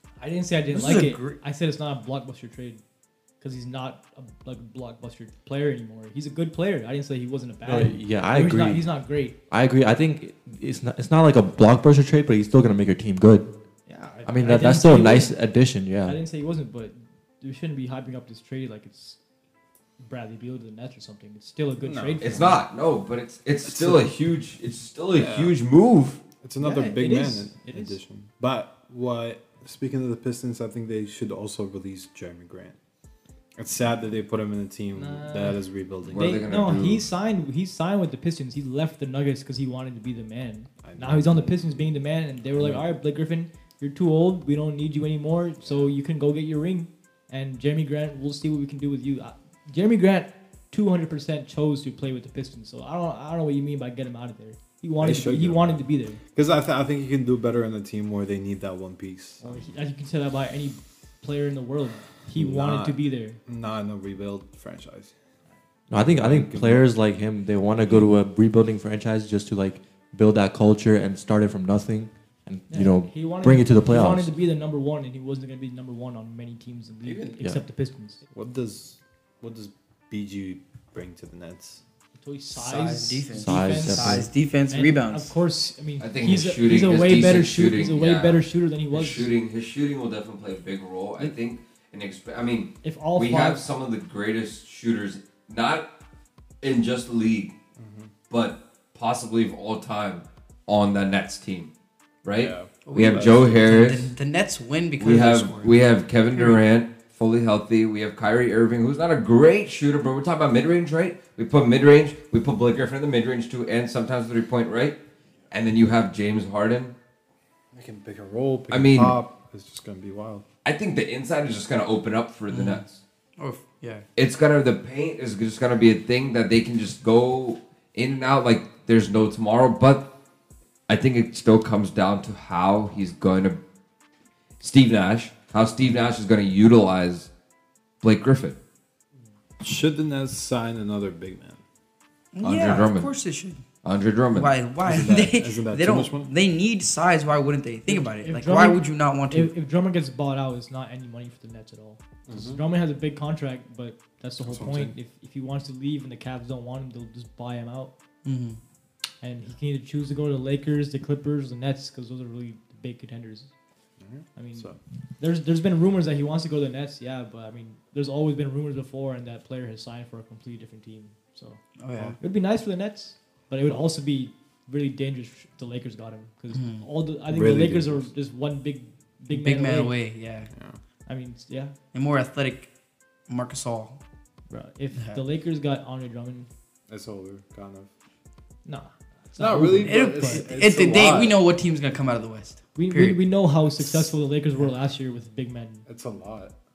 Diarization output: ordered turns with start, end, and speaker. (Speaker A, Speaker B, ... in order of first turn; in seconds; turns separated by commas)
Speaker A: 0.2-2.8, Speaker B: 0.7-1.4, Speaker A: 3.4-9.3, Speaker C: 7.6-8.9, Speaker C: 9.5-13.5, Speaker A: 13.9-15.3, Speaker C: 14.2-16.2, Speaker A: 16.0-19.2, Speaker A: 20.0-22.6, Speaker D: 21.8-22.2, Speaker E: 22.2-26.2, Speaker D: 23.6-24.1, Speaker D: 25.1-25.5, Speaker D: 26.4-32.7, Speaker A: 26.6-28.0, Speaker D: 33.6-36.4, Speaker A: 34.9-56.2, Speaker E: 36.1-37.1, Speaker D: 40.8-41.9, Speaker D: 42.6-42.8, Speaker D: 45.6-45.9, Speaker D: 55.0-55.8, Speaker D: 56.3-59.6, Speaker A: 59.4-63.4, Speaker D: 62.3-65.1, Speaker C: 65.9-74.3, Speaker D: 66.2-66.9, Speaker A: 72.7-78.2, Speaker D: 77.0-77.4, Speaker D: 78.3-81.8, Speaker A: 82.2-89.3, Speaker B: 82.5-85.3, Speaker C: 83.3-84.3, Speaker E: 86.0-95.9, Speaker A: 92.8-93.6, Speaker E: 96.6-97.5, Speaker D: 97.8-98.1, Speaker E: 98.3-101.7, Speaker E: 102.2-104.1, Speaker D: 102.3-103.5, Speaker B: 102.8-105.8, Speaker E: 105.0-115.0, Speaker B: 106.3-106.6, Speaker E: 115.5-116.9, Speaker D: 117.7-120.4, Speaker E: 118.7-119.2, Speaker E: 120.6-123.0, Speaker B: 122.5-122.8, Speaker B: 123.4-124.0, Speaker E: 124.2-130.1, Speaker E: 130.9-133.6, Speaker E: 134.6-137.3, Speaker E: 138.0-138.6, Speaker D: 139.6-141.6, Speaker B: 142.3-143.6, Speaker E: 142.4-143.1, Speaker E: 143.8-144.5, Speaker B: 144.3-149.5, Speaker D: 144.8-146.3, Speaker A: 147.9-157.9, Speaker D: 152.3-152.6, Speaker D: 154.4-154.9, Speaker B: 158.2-158.6, Speaker A: 159.2-163.5, Speaker D: 164.0-164.8, Speaker A: 164.3-171.6, Speaker B: 171.8-172.2, Speaker A: 172.2-179.9, Speaker B: 176.5-176.8, Speaker D: 177.3-178.1, Speaker B: 179.3-180.5, Speaker A: 181.1-181.7, Speaker B: 181.9-182.7, Speaker B: 183.3-184.0, Speaker A: 184.5-186.5, Speaker D: 186.9-187.9, Speaker A: 188.7-190.4, Speaker D: 189.4-191.4, Speaker B: 189.8-193.2, Speaker A: 192.7-195.8, Speaker B: 193.8-194.1, Speaker D: 195.9-196.5